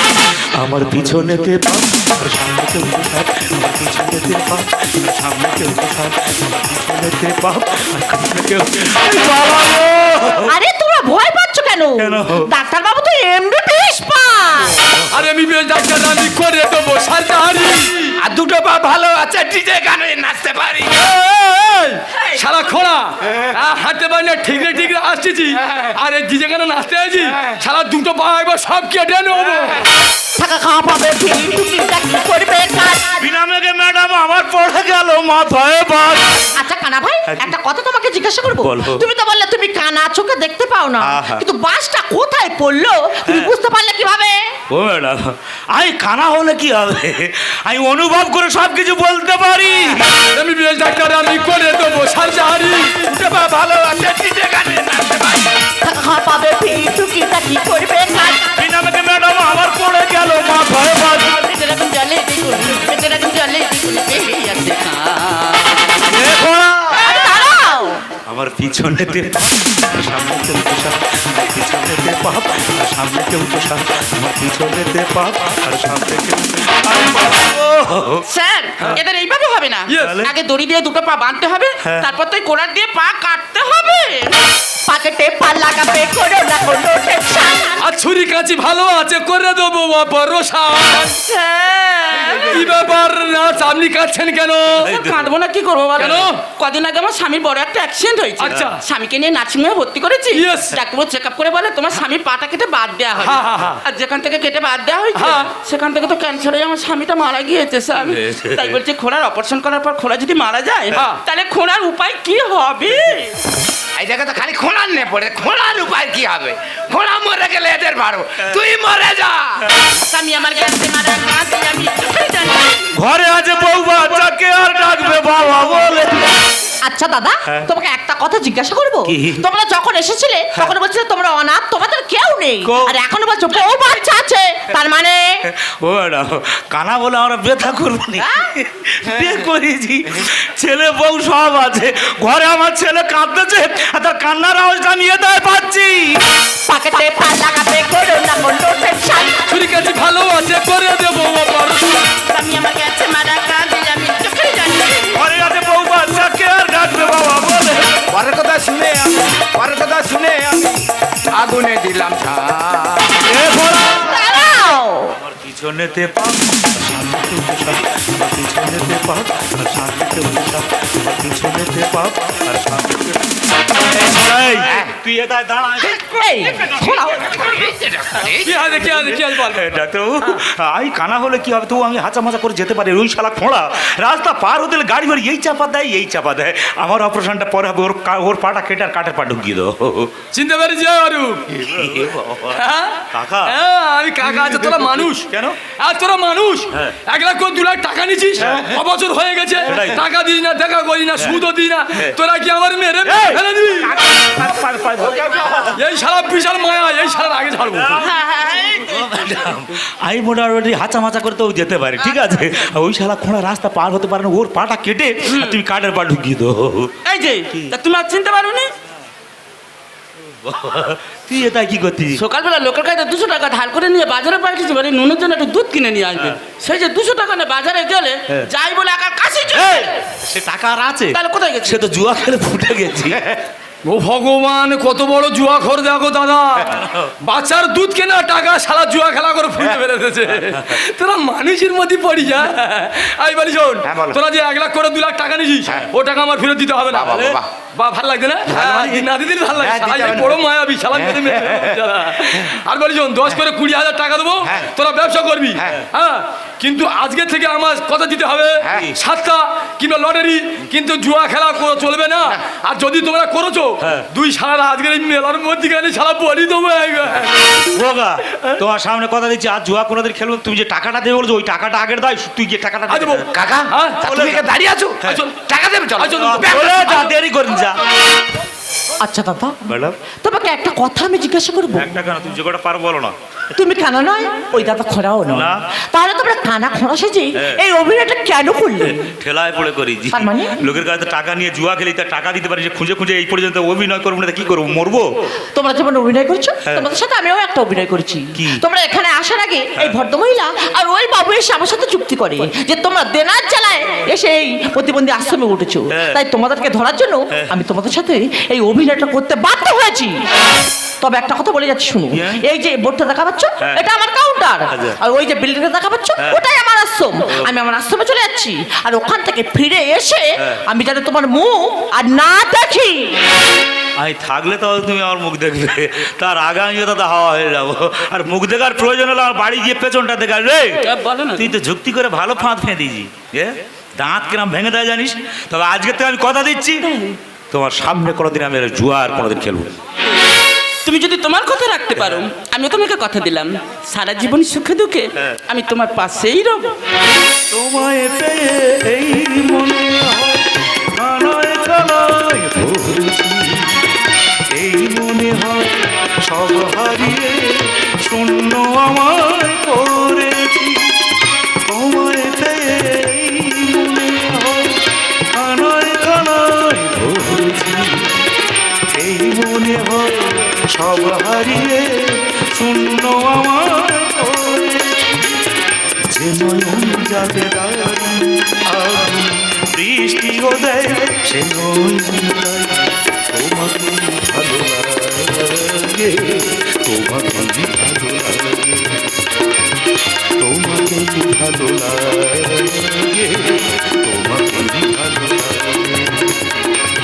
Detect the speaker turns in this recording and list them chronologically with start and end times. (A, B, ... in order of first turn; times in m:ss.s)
0:00.5-0:10.5 A
0:10.4-0:14.8 B
0:12.0-0:12.5 A
0:15.1-0:18.1 C
0:18.2-0:21.0 D
0:20.9-0:29.8 C
0:30.4-0:33.4 B
0:33.2-0:36.4 A
0:36.6-0:44.4 B
0:38.6-0:39.0 A
0:41.0-0:41.4 A
0:43.3-0:43.5 A
0:44.7-0:50.1 A
0:50.3-0:53.1 C
0:53.0-0:55.5 D
0:55.8-0:58.6 B
0:58.6-1:01.4 A
1:01.3-1:06.0 E
1:06.1-1:07.4 A
1:06.9-1:08.0 B
1:08.3-1:18.2 A
1:18.3-1:24.4 E
1:19.9-1:20.2 C
1:20.0-1:20.3 A
1:21.8-1:22.1 A
1:24.9-1:27.9 B
1:27.8-1:31.2 C
1:31.2-1:32.6 E
1:32.3-1:34.9 C
1:34.8-1:35.3 A
1:34.9-1:53.3 E
1:36.0-1:36.4 C
1:38.4-1:38.8 C
1:38.5-1:38.7 A
1:40.3-1:40.8 C
1:43.2-1:43.8 C
1:45.1-1:45.5 C
1:47.9-1:48.8 A
1:50.9-1:51.2 C
1:54.0-1:59.6 D
2:00.0-2:02.9 E
2:02.9-2:06.3 A
2:06.8-2:15.4 B
2:09.0-2:09.4 A
2:12.6-2:13.0 A
2:15.5-2:26.2 A
2:18.2-2:18.4 B
2:26.6-2:29.7 B
2:29.5-2:32.1 C
2:32.2-2:35.2 E
2:35.1-2:38.0 A
2:38.1-2:43.2 D
2:43.2-2:44.2 A
2:44.0-2:45.2 B
2:45.2-2:56.0 A
2:54.6-2:54.9 D
2:56.0-2:57.5 B
2:57.2-2:58.8 D
2:58.3-2:59.7 C
2:59.2-3:10.1 A
3:10.3-3:11.4 C
3:11.5-3:13.6 A
3:12.5-3:15.2 C
3:14.2-3:15.6 A
3:15.8-3:24.0 C
3:18.4-3:18.8 A
3:19.6-3:20.0 A
3:21.2-3:22.2 A
3:23.0-3:25.8 A
3:25.7-3:28.0 C
3:28.0-3:28.6 E
3:28.5-3:36.9 A
3:35.2-3:35.6 E
3:37.0-3:38.7 E
3:37.5-3:37.7 A
3:40.4-3:42.2 A
3:42.2-3:49.9 E
3:46.1-3:46.4 A
3:49.5-3:53.3 A
3:51.1-3:51.8 E
3:53.8-4:27.4 C
3:56.6-3:57.1 A
4:03.8-4:04.2 D
4:06.9-4:07.5 D
4:08.5-4:09.0 D
4:09.6-4:10.4 D
4:10.9-4:11.8 D
4:18.7-4:19.0 A
4:23.8-4:24.0 A
4:27.6-4:33.3 A
4:32.9-4:34.0 C
4:33.3-4:37.1 D
4:34.0-4:34.4 A
4:35.1-4:35.3 C
4:36.0-4:36.9 C
4:36.2-4:37.8 A
4:39.0-4:39.6 B
4:39.7-4:40.0 A
4:40.2-4:41.9 B
4:41.7-4:43.1 A
4:43.5-4:49.0 B
4:45.3-4:45.6 A
4:48.8-4:55.1 A
4:50.1-4:50.6 B
4:55.5-5:10.2 B
4:58.3-4:58.6 A
4:59.8-5:00.0 A
5:05.9-5:06.2 A
5:11.0-5:23.2 B
5:12.1-5:12.4 A
5:14.7-5:15.0 A
5:24.0-5:36.9 A
5:30.8-5:31.5 E
5:36.8-5:37.2 E
5:37.5-5:39.8 A
5:40.8-5:46.7 E
5:42.0-5:42.2 A
5:47.5-5:53.8 A
5:54.5-6:01.1 A
6:01.6-6:08.2 A
6:08.9-6:15.4 A
6:16.1-6:29.2 A
6:30.4-6:36.4 A